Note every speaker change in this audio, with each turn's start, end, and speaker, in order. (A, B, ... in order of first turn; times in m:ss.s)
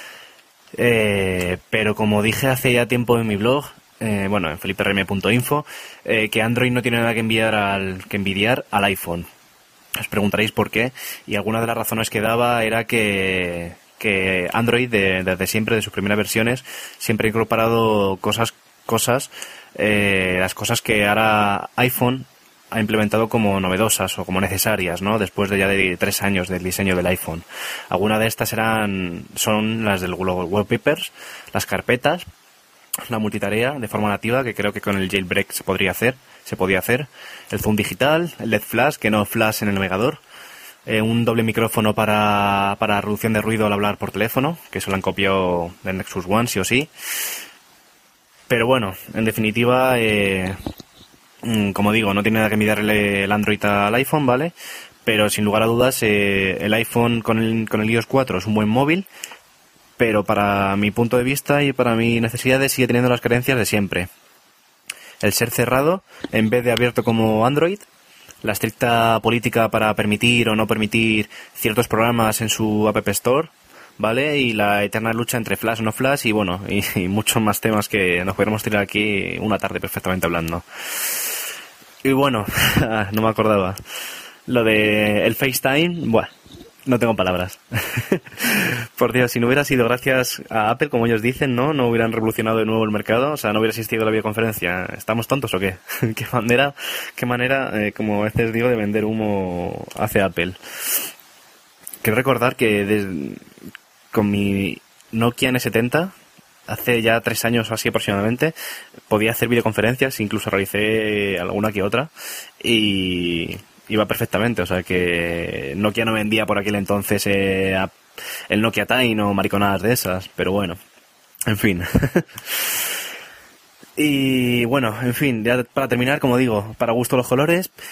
0:00.8-0:09.3 A
0:10.0-0:32.2 A
0:33.1-0:40.2 A
0:40.8-0:46.9 A
0:48.5-0:50.6 A
0:51.4-0:54.5 A
0:55.0-0:59.0 A
1:00.0-1:04.1 A
1:05.2-1:07.8 A
1:08.4-1:21.2 A
1:22.0-1:23.8 A
1:24.5-1:26.3 A
1:26.8-1:41.0 A
1:42.0-1:43.4 A
1:44.1-1:46.1 A
1:46.7-1:48.5 A
1:49.1-1:57.9 A
1:58.5-2:00.8 A
2:01.5-2:02.8 A
2:04.0-2:07.7 A